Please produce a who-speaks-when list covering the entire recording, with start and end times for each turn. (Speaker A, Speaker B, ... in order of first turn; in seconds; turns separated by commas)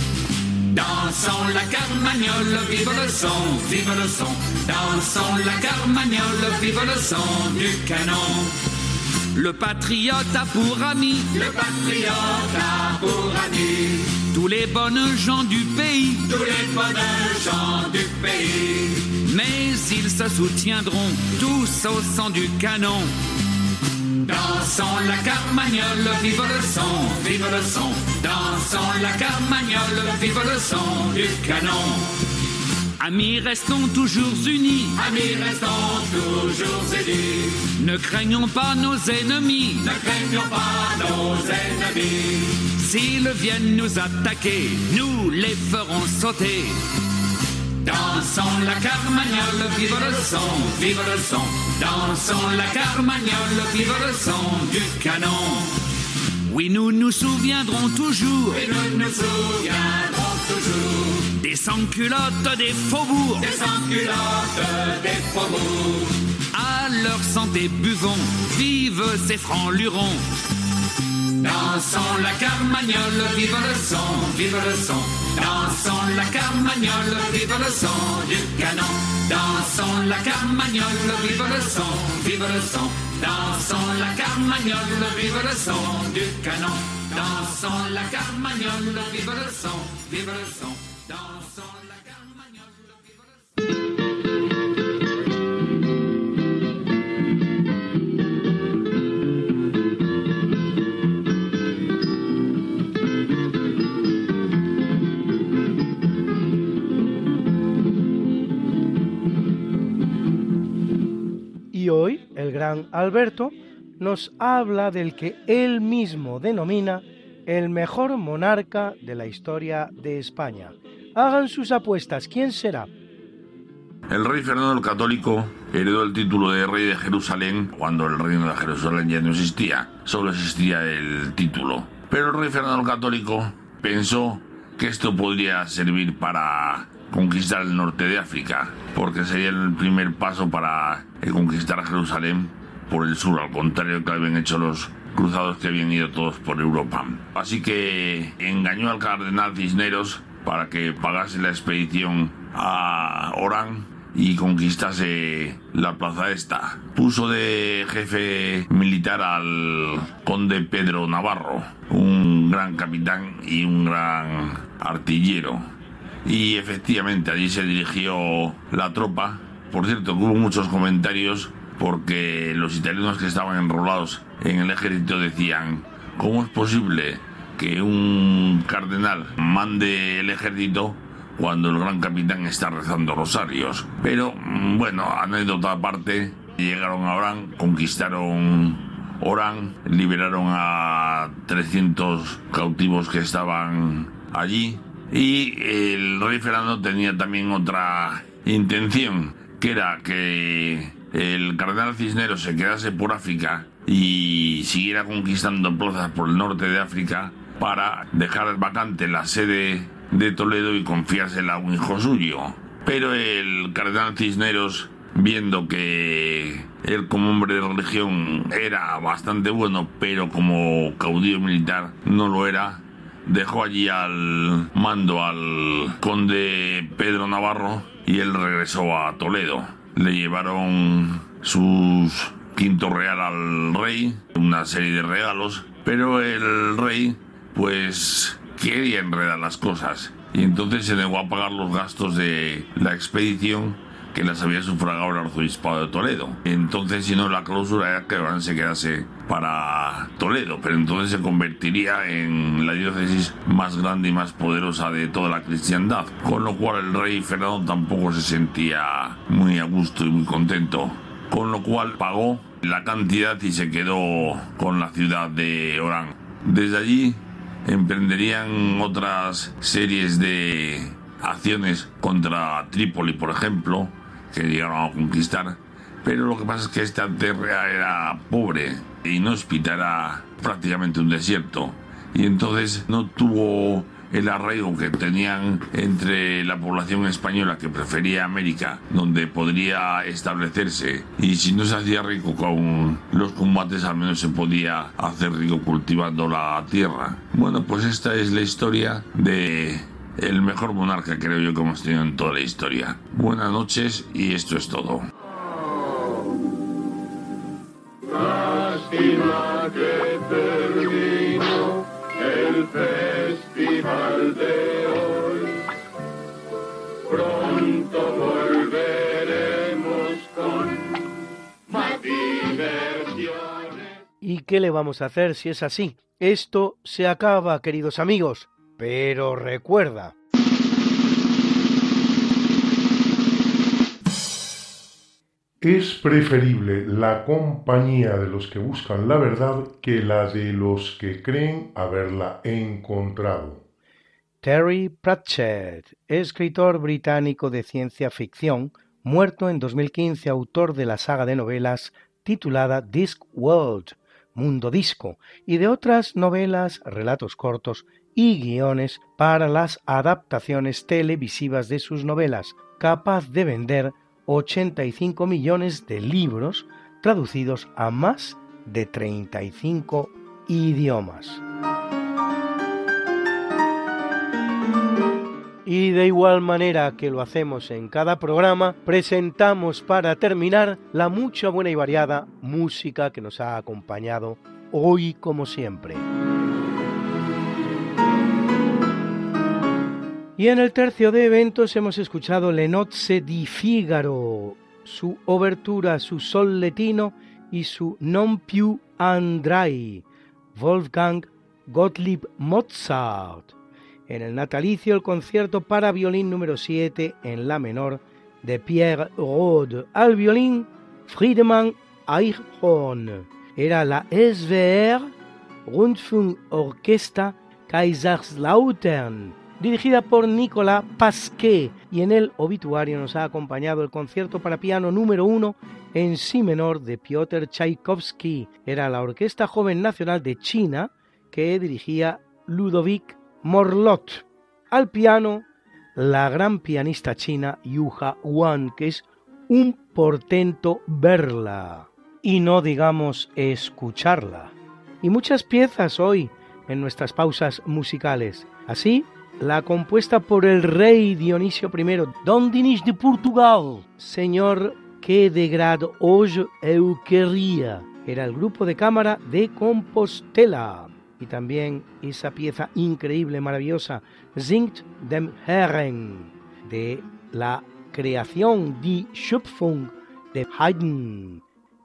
Speaker A: 0.7-8.5, Speaker B: 9.3-11.3, Speaker A: 11.3-14.1, Speaker B: 14.3-16.2, Speaker A: 16.3-19.0, Speaker B: 19.2-23.1, Speaker A: 24.2-32.1, Speaker B: 33.0-34.9, Speaker A: 34.9-37.6, Speaker B: 37.8-39.9, Speaker A: 39.8-42.4, Speaker B: 42.8-46.8, Speaker A: 47.8-55.7, Speaker B: 56.5-58.6, Speaker A: 58.5-61.2, Speaker B: 61.3-63.5, Speaker A: 63.4-66.0, Speaker B: 66.5-70.2, Speaker A: 71.4-92.3, Speaker C: 111.7-122.9, Speaker D: 124.1-165.6, Speaker D: 166.2-305.0, Speaker C: 324.2-330.1, Speaker E: 335.6-343.6, Speaker C: 344.4-371.4, Speaker C: 375.6-386.1, Speaker C: 390.4-403.5, Speaker C: 404.1-415.1, Speaker C: 415.6-471.4